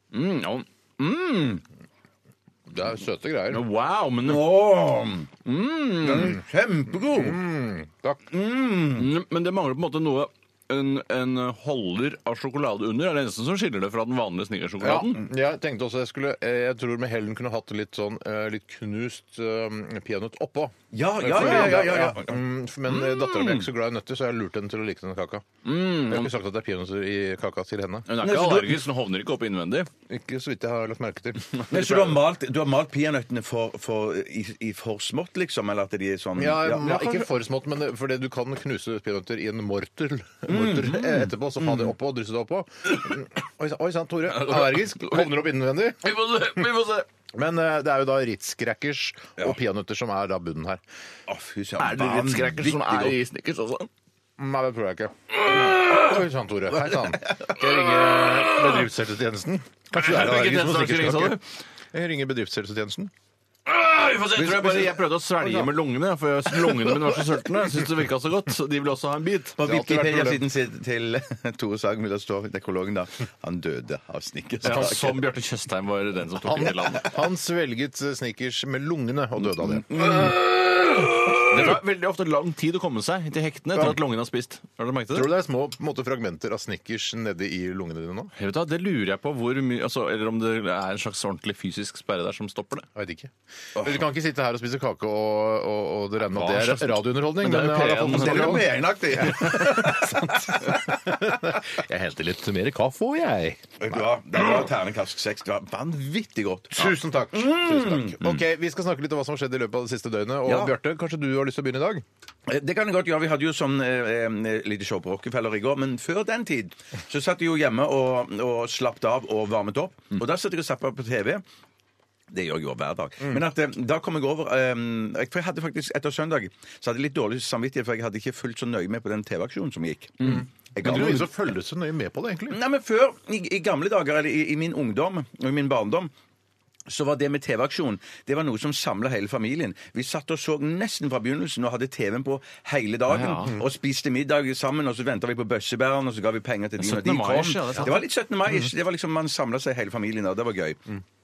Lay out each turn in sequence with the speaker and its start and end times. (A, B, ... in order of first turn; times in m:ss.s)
0:00.1-0:00.6 A
0:01.0-0:01.6 B
0:02.7-0:03.6 C
0:03.5-0:04.6 A
0:04.2-0:05.3 B
0:05.4-0:06.3 A
0:06.0-0:07.4 B
0:07.1-0:08.2 C
0:08.3-0:09.1 B
0:08.9-0:15.2 A
0:14.8-0:28.8 C
0:20.9-0:22.4 B
0:21.4-0:21.8 A
0:22.9-0:23.6 A
0:25.6-0:26.3 A
0:28.1-0:29.9 A
0:30.1-0:31.9 C
0:31.6-0:32.1 A
0:31.7-0:37.3 B
0:36.4-0:46.6 C
0:40.5-0:41.9 B
0:44.3-0:45.2 A
0:46.0-0:47.0 A
0:47.3-0:50.8 C
0:51.3-0:53.2 B
0:51.8-0:53.9 A
0:54.4-1:01.4 C
0:55.5-0:56.1 A
0:56.9-0:57.4 B
0:59.9-1:01.4 A
1:01.9-1:03.1 C
1:03.7-1:09.6 A
1:04.3-1:05.6 B
1:09.6-1:15.2 B
1:09.6-1:10.4 C
1:14.6-1:17.1 A
1:16.4-1:19.9 C
1:19.9-1:25.3 A
1:25.1-1:28.3 C
1:28.3-1:32.9 A
1:32.9-1:44.4 C
1:33.8-1:34.0 B
1:36.3-1:38.7 A
1:38.1-1:40.8 B
1:43.8-1:48.4 B
1:46.7-1:52.0 C
1:50.4-1:50.7 B
1:52.5-2:01.4 B
2:02.3-2:11.3 B
2:10.2-2:12.6 C
2:12.5-2:16.1 B
2:16.9-2:30.8 B
2:23.1-2:23.6 A
2:26.8-2:28.0 A